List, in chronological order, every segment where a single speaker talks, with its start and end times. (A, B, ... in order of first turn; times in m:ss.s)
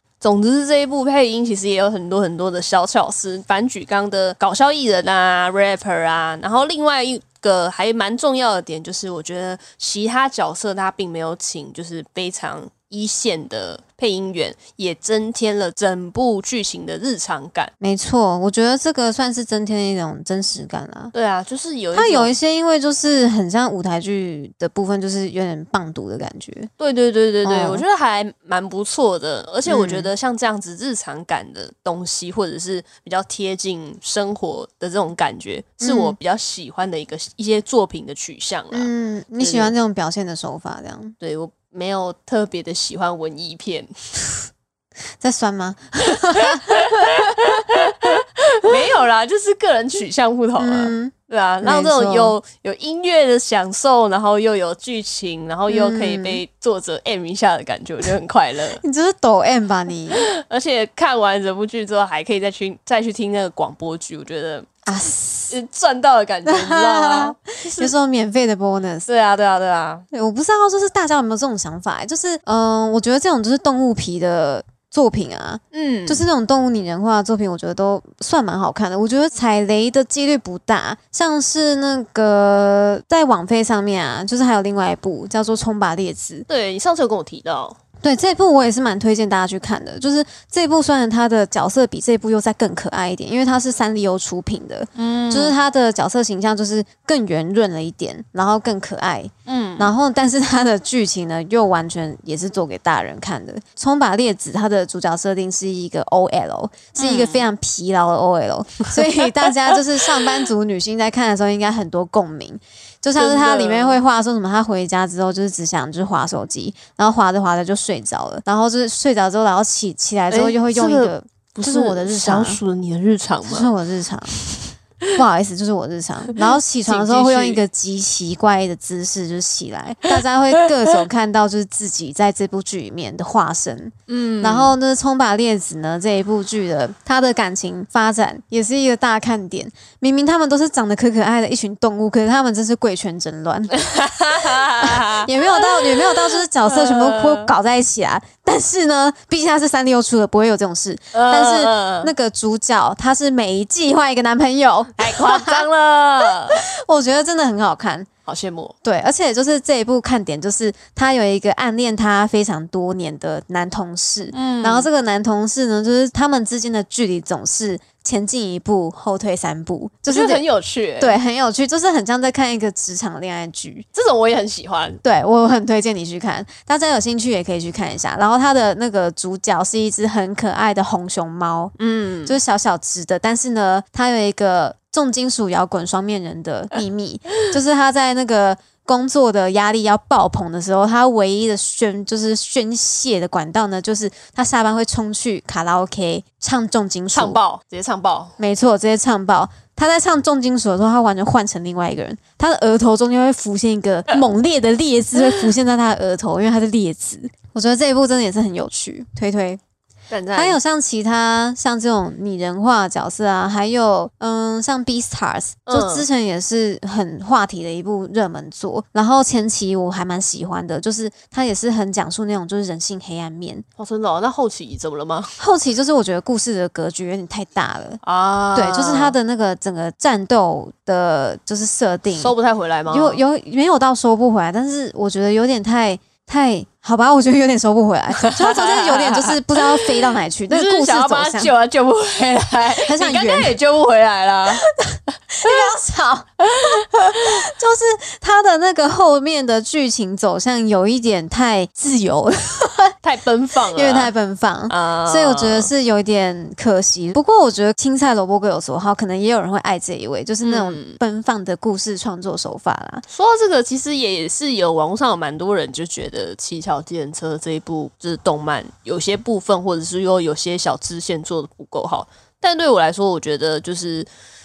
0:00.2-0:17.7 A
0:17.8-0:21.1 B
0:21.1-0:22.3 A
0:21.9-0:26.7 B
0:26.8-0:39.7 A
0:27.4-0:27.8 B
0:29.7-0:30.1 B
0:35.8-0:36.2 B
0:38.7-0:41.2 B
0:41.2-0:43.9 A
0:45.2-0:47.3 B
0:46.3-0:58.8 A
0:50.6-0:52.4 B
0:55.7-0:56.4 B
0:58.8-1:00.2 B
1:00.1-1:04.7 A
1:04.9-1:05.5 B
1:05.5-1:07.9 A
1:06.5-1:09.1 B
1:09.1-1:10.0 A
1:10.1-1:26.5 B
1:15.7-1:16.2 A
1:26.5-1:27.8 A
1:28.0-2:02.6 B
1:35.0-1:35.6 A
1:39.5-1:39.9 A
1:47.0-1:47.4 A
1:49.2-1:49.7 A
1:53.2-1:54.0 A
2:00.3-2:03.7 A
2:03.5-2:04.4 B
2:04.3-2:05.1 A
2:05.2-2:23.8 B
2:06.5-2:07.6 A
2:14.1-2:14.7 A
2:23.7-2:27.5 A
2:24.4-2:35.7 B
2:31.1-2:32.1 A
2:35.0-2:36.6 A
2:36.5-2:38.1 B
2:38.3-2:38.7 A
2:38.8-2:50.4 B
2:44.3-2:44.9 A
2:50.1-2:51.2 A
2:51.0-2:53.9 B
2:53.9-2:55.0 A
2:55.0-3:01.7 B
3:01.8-3:02.4 A
3:02.3-3:17.4 B
3:17.1-3:18.4 A
3:18.4-3:29.6 B
3:30.1-3:30.6 A
3:30.3-3:43.6 B
3:35.7-3:36.1 A
3:43.8-3:45.4 A
3:45.4-3:48.0 B
3:48.0-3:49.2 A
3:48.5-3:52.3 B
3:52.1-3:53.2 A
3:52.9-4:01.5 B
3:58.2-3:59.9 A
4:00.5-4:04.7 A
4:02.8-4:03.6 B
4:04.6-4:06.3 B
4:06.5-4:07.3 A
4:07.1-4:13.0 B
4:13.0-4:14.1 A
4:13.7-4:23.0 B
4:14.7-4:15.7 A
4:20.4-4:21.0 A
4:23.1-4:34.1 A